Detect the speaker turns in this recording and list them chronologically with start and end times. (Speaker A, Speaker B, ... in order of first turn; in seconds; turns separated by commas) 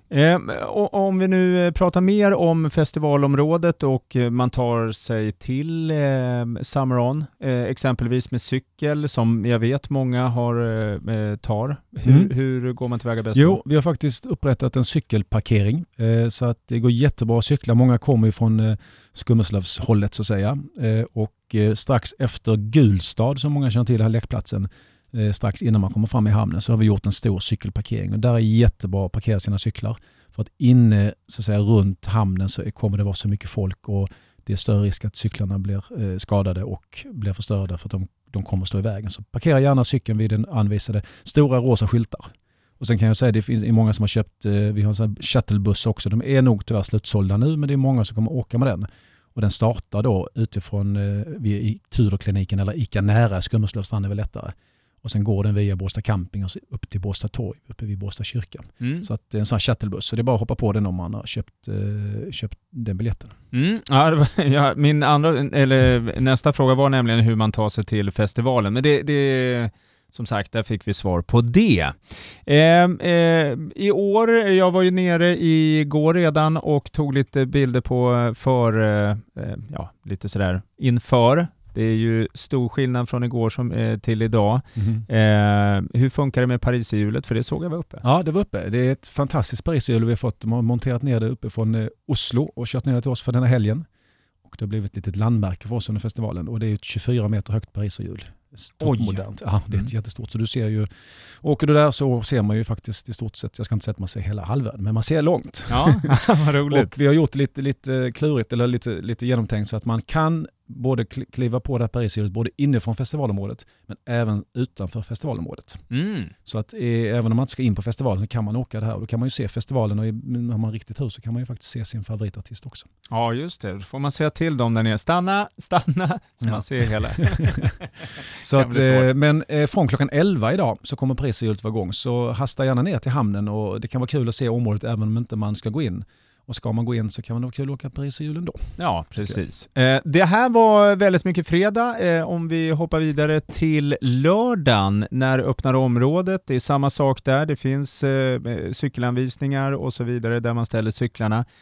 Speaker A: 0.1-13.6, Speaker B: 12.1-12.3, Speaker B: 13.3-42.3, Speaker B: 42.8-63.3, Speaker A: 58.8-59.1, Speaker A: 63.5-88.0, Speaker B: 84.8-85.0, Speaker B: 88.0-93.8, Speaker B: 94.5-106.2, Speaker A: 98.8-99.9, Speaker A: 105.7-106.9, Speaker B: 106.7-115.8, Speaker A: 115.9-116.3, Speaker B: 116.5-122.9, Speaker A: 123.1-129.1, Speaker B: 126.4-127.5, Speaker B: 128.4-139.4, Speaker A: 138.8-151.4